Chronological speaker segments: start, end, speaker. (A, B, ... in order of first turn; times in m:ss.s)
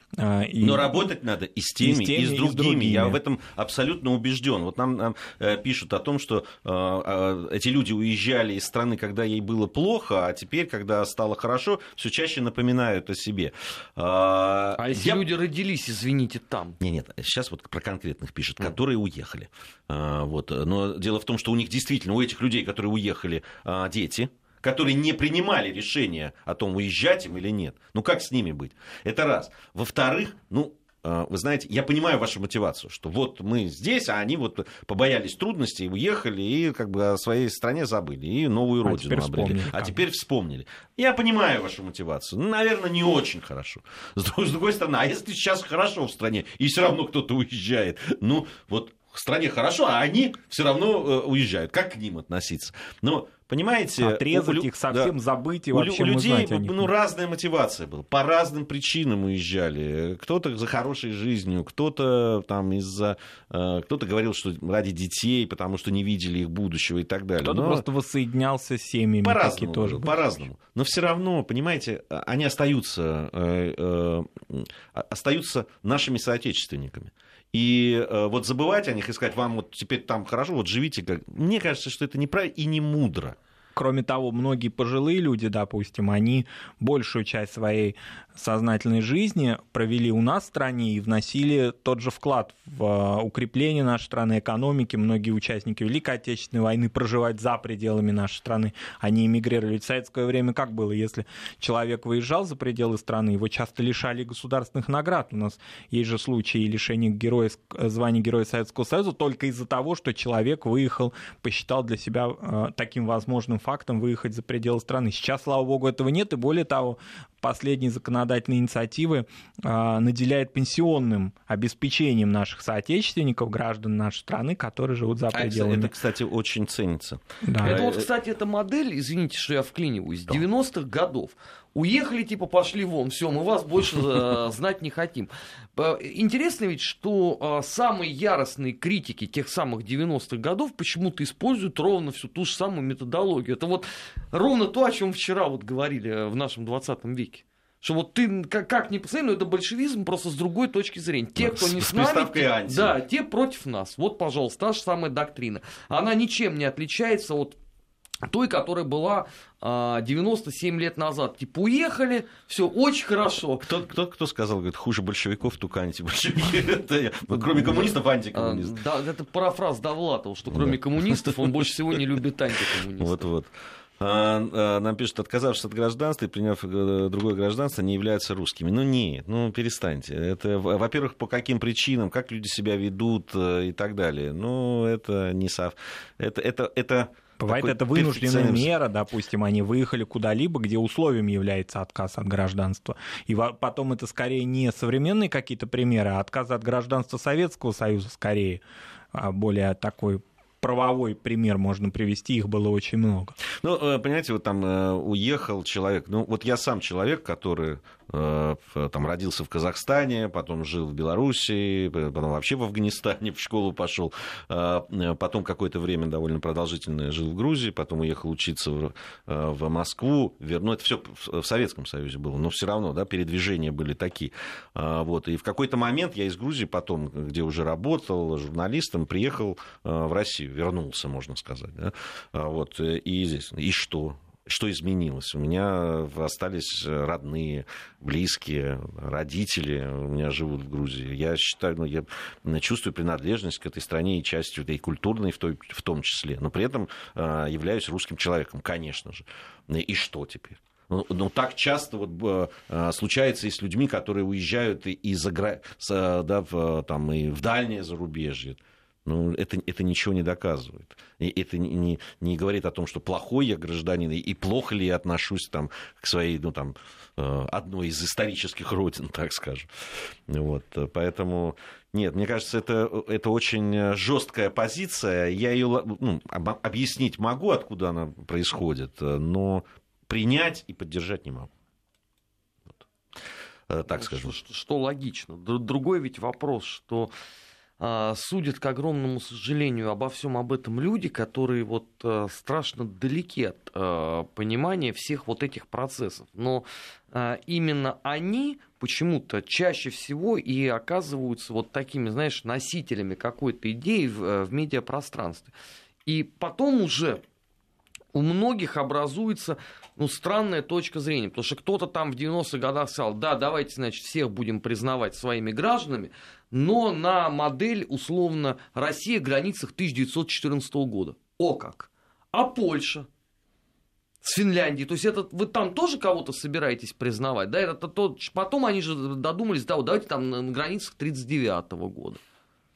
0:00.2-0:01.0 A
0:00.6-0:15.2 B
0:01.8-0:03.2 A
0:14.8-0:16.8 C
0:16.8-0:55.1 B
0:38.8-0:40.0 A
0:54.0-0:56.9 A
0:55.7-1:07.8 B
1:07.4-1:10.4 A
1:09.2-1:23.4 B
1:23.8-2:05.9 A
2:05.3-2:08.1 B
2:07.4-2:07.8 A
2:07.6-2:37.6 C
2:31.4-2:33.0 B
2:38.3-2:43.7 C
2:43.6-2:48.8 B
2:47.3-2:53.3 C
2:50.5-2:52.0 B
2:53.0-3:08.7 B
3:07.4-3:18.6 A
3:19.1-3:23.4 A
3:23.6-4:41.5 B
4:43.7-4:44.4 B
4:43.9-4:47.1 C
4:47.8-5:05.5 C
5:06.0-5:07.2 C
5:08.1-5:23.1 C
5:24.2-5:32.2 C